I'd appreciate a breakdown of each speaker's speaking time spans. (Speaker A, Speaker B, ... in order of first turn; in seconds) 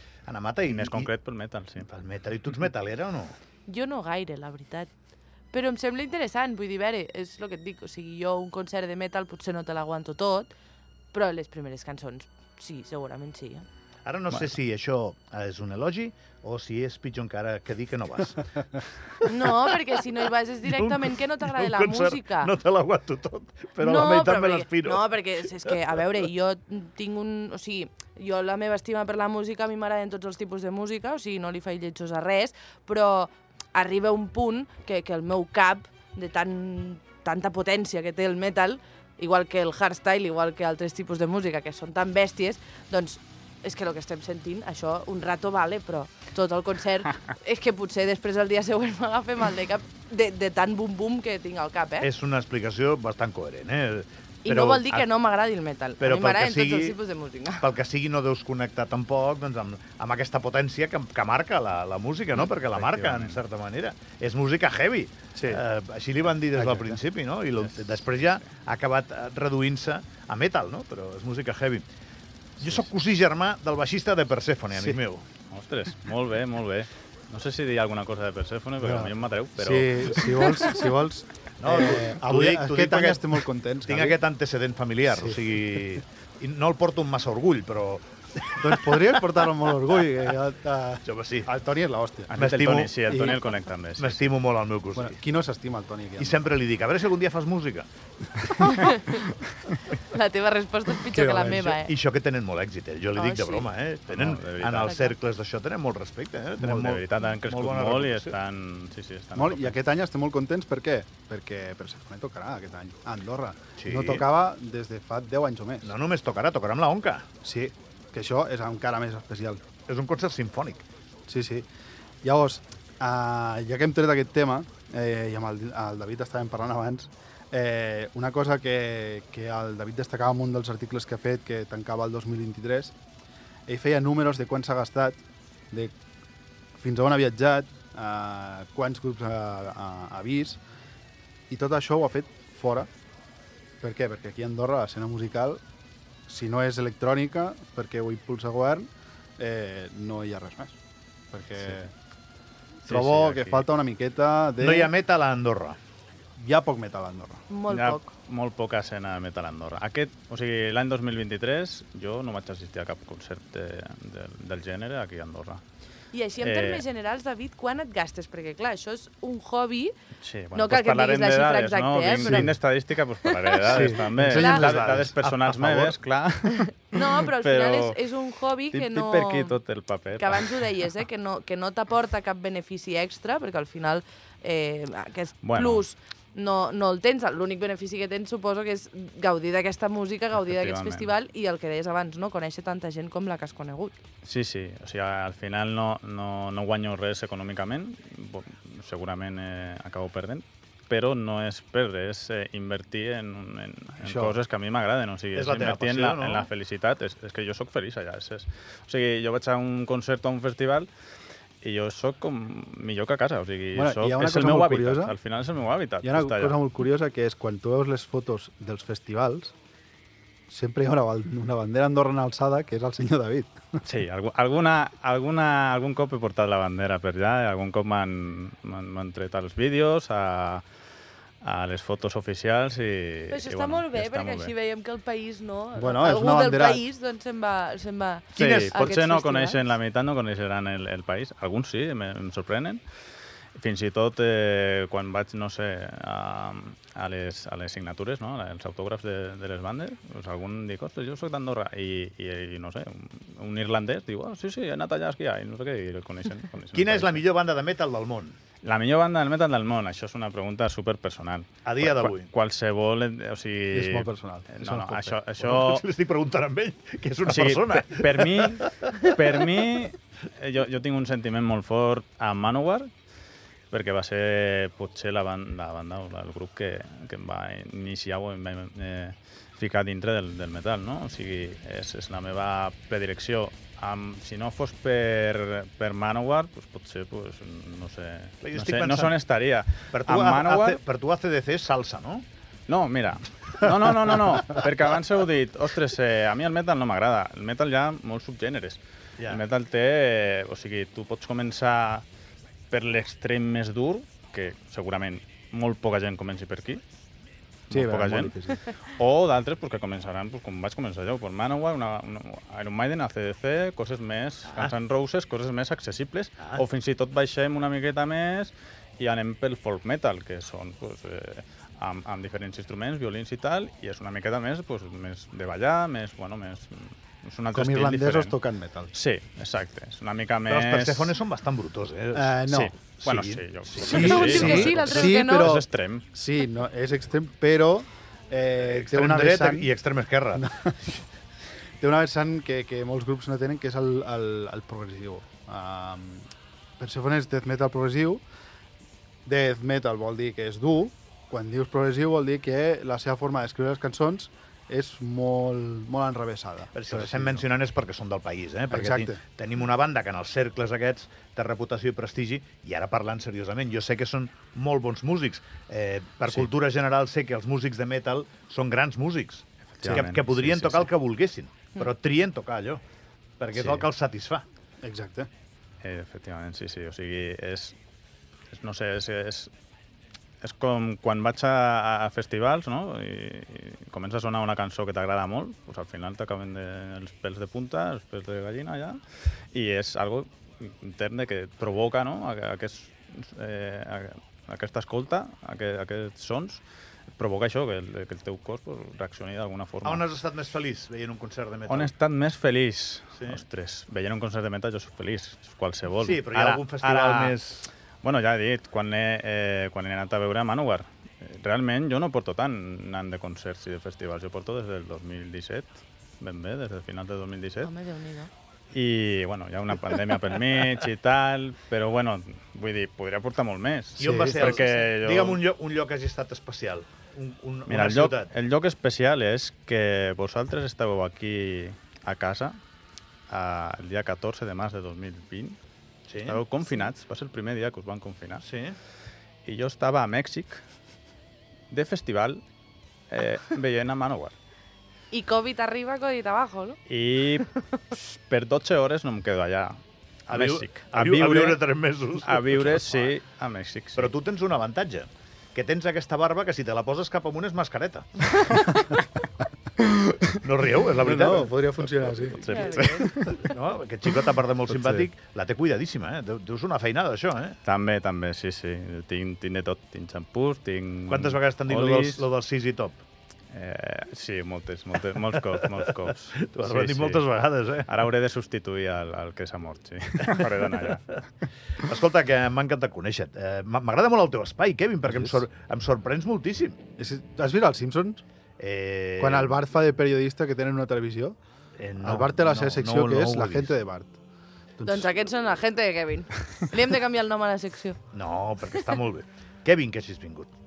Speaker A: 0.3-1.1, 1.8-3.4, 14.1-18.5, 19.2-20.0, 20.6-26.3, 52.0-55.1, 56.0-57.0, 57.6-71.9, 72.6-75.2, 81.6-88.9, 91.0-91.5, 92.4-93.4, 94.0-95.2, 96.2-97.9, 101.1-108.3, 113.8-114.3, 115.8-117.3, 119.9-120.8, 154.6-155.8, 174.5-175.9, 205.3-206.5, 238.4-238.8, 256.7-258.4, 261.6-262.3, 265.4-269.2, 288.4-289.2, 289.9-292.2, 314.5-314.7, 330.5-332.4, 333.0-334.7, 338.6-340.4, 356.7-372.8, 373.4-374.4, 399.8-401.9, 406.0-407.7, 424.0-428.3, 436.1-436.4, 438.4-438.8, 450.3-453.1, 454.0-458.3, 460.4-461.6, 462.4-462.8, 463.4-467.6, 471.1-473.0, 475.6-475.9, 476.4-477.9, 481.8-486.8, 488.6-489.6, 491.8-493.7, 498.1-500.5
Speaker B: 0.6-1.9, 62.7-63.4, 67.5-68.5, 75.5-80.9, 92.3-94.3, 104.1-105.0, 106.6-109.8, 152.8-153.7, 157.7-165.6, 166.4-166.8, 170.2-178.0, 178.7-180.7, 185.4-185.8, 190.4-191.1, 194.2-210.9, 211.6-216.6, 223.8-230.6, 231.4-234.5, 238.3-242.8, 243.6-257.2, 258.6-265.8, 267.2-272.9, 273.7-290.8, 292.7-302.1, 302.7-306.8, 307.7-328.4, 328.9-331.2, 332.5-336.1, 369.7-370.9, 373.5-373.9, 375.8-377.8, 378.5-379.5, 380.4-389.0, 389.5-396.6, 397.1-400.1, 401.7-407.4, 408.0-417.7, 418.7-425.4, 427.7-432.6, 433.3-435.6, 436.2-438.4, 439.4-440.6, 441.7-442.4, 443.1-444.4, 446.9-451.6, 452.2-454.1, 458.3-459.0, 462.3-463.4, 467.6-472.3, 473.5-477.3, 477.9-481.3
Speaker C: 3.7-4.9, 5.5-10.5, 11.1-13.7, 19.3-22.5, 23.8-52.1, 54.5-57.7, 98.6-99.2, 100.1-101.9, 103.2-103.7, 157.5-158.1, 166.1-169.9, 170.6-172.4, 173.3-174.7, 176.9-179.6, 180.2-194.0, 233.3-239.7, 334.0-335.5, 417.6-418.3, 445.1-446.8, 462.5-463.3, 494.9-498.0
Speaker D: 65.3-65.6, 66.5-67.0, 74.7-75.0, 78.8-84.2, 85.1-85.4, 88.6-92.3, 93.1-93.4, 95.0-96.5, 109.3-115.9, 117.4-119.6, 121.3-121.7, 122.2-132.9, 133.7-135.9, 136.8-140.6, 141.5-142.9, 143.8-145.6, 146.3-150.8, 151.3-151.9, 152.9-154.9, 156.4-157.4, 172.2-172.6, 173.7-175.0, 204.0-204.4, 213.7-215.2, 216.0-219.5, 220.5-223.8, 235.8-236.8, 263.7-265.3, 307.7-308.6, 327.5-328.9, 332.1-332.8, 333.8-339.7, 340.3-341.1, 341.8-346.3, 346.8-348.2, 349.3-357.4, 358.7-359.2, 374.8-375.3, 424.0-424.5, 460.9-463.0, 485.1-485.4, 487.0-488.2, 489.2-491.4, 492.0-494.2, 494.8-495.1